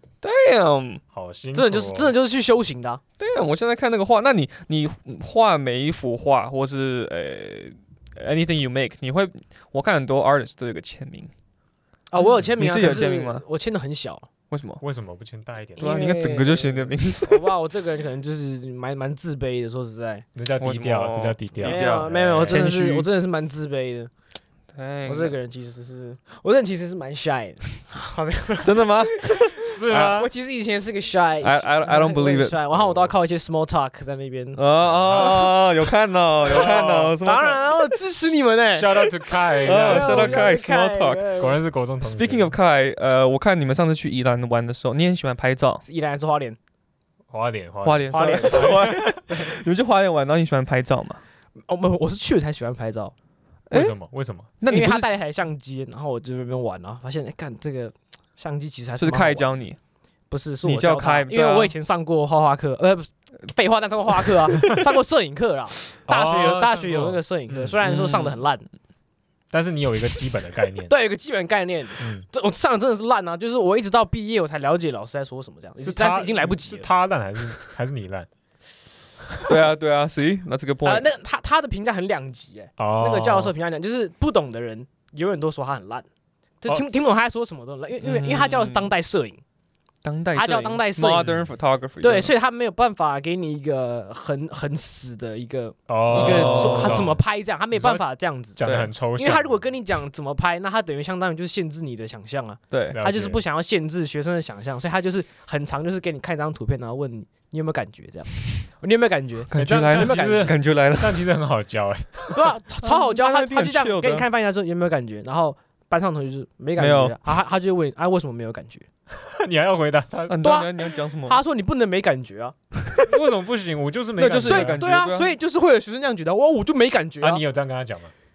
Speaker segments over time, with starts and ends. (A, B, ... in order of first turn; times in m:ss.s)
0:00.2-0:01.0 A
0:01.1-0:02.1 B
0:01.5-0:03.0 C
0:03.2-0:11.3 A
0:12.1-0:14.3 C
0:12.6-0:13.4 A
0:14.5-0:14.8 A
0:14.8-0:15.9 B
0:15.8-0:20.2 C
0:15.8-0:17.5 A
0:20.3-0:22.6 B
0:20.6-0:23.1 A
0:21.6-0:24.1 C
0:24.7-0:25.4 A
0:25.1-0:34.6 C
0:28.6-0:30.1 A
0:29.6-0:30.3 B
0:31.4-0:32.6 A
0:32.7-0:33.1 B
0:34.6-0:37.7 A
0:34.8-0:35.5 B
0:36.4-0:37.2 B
0:36.5-0:41.6 C
0:38.7-0:40.5 B
0:39.6-0:41.3 A
0:41.4-0:42.6 B
0:42.0-0:45.8 A
0:45.8-0:46.6 C
0:47.3-0:49.5 B
0:47.8-0:51.2 A
0:48.1-0:48.9 C
0:51.7-0:53.1 C
0:53.7-0:54.0 A
0:53.7-0:54.5 B
0:54.6-0:55.1 A
0:54.6-0:59.5 C
0:59.0-0:59.8 A
1:00.3-1:08.6 C
1:00.6-1:01.7 A
1:06.1-1:07.8 B
1:07.8-1:08.4 A
1:09.5-1:10.9 B
1:10.9-1:16.9 C
1:12.0-1:12.2 B
1:15.8-1:18.3 B
1:19.4-1:21.0 A
1:20.8-1:26.0 C
1:22.8-1:23.5 B
1:26.6-1:29.4 C
1:28.0-1:28.9 A
1:30.0-1:32.3 A
1:30.4-1:31.3 C
1:31.2-1:31.5 B
1:32.0-1:50.5 C
1:35.9-1:38.0 B
1:36.1-1:37.0 A
1:38.6-1:39.7 B
1:38.6-1:38.9 A
1:42.7-1:43.0 A
1:42.9-1:43.4 B
1:49.5-1:51.2 A
1:49.5-1:52.4 B
1:52.3-1:58.8 C
1:52.8-1:54.2 A
1:56.8-1:57.1 A
1:59.1-2:00.6 B
2:00.3-2:01.4 A
2:00.4-2:02.5 C
2:03.1-2:04.8 B
2:04.2-2:05.3 A
2:04.4-2:07.4 C
2:07.2-2:08.1 B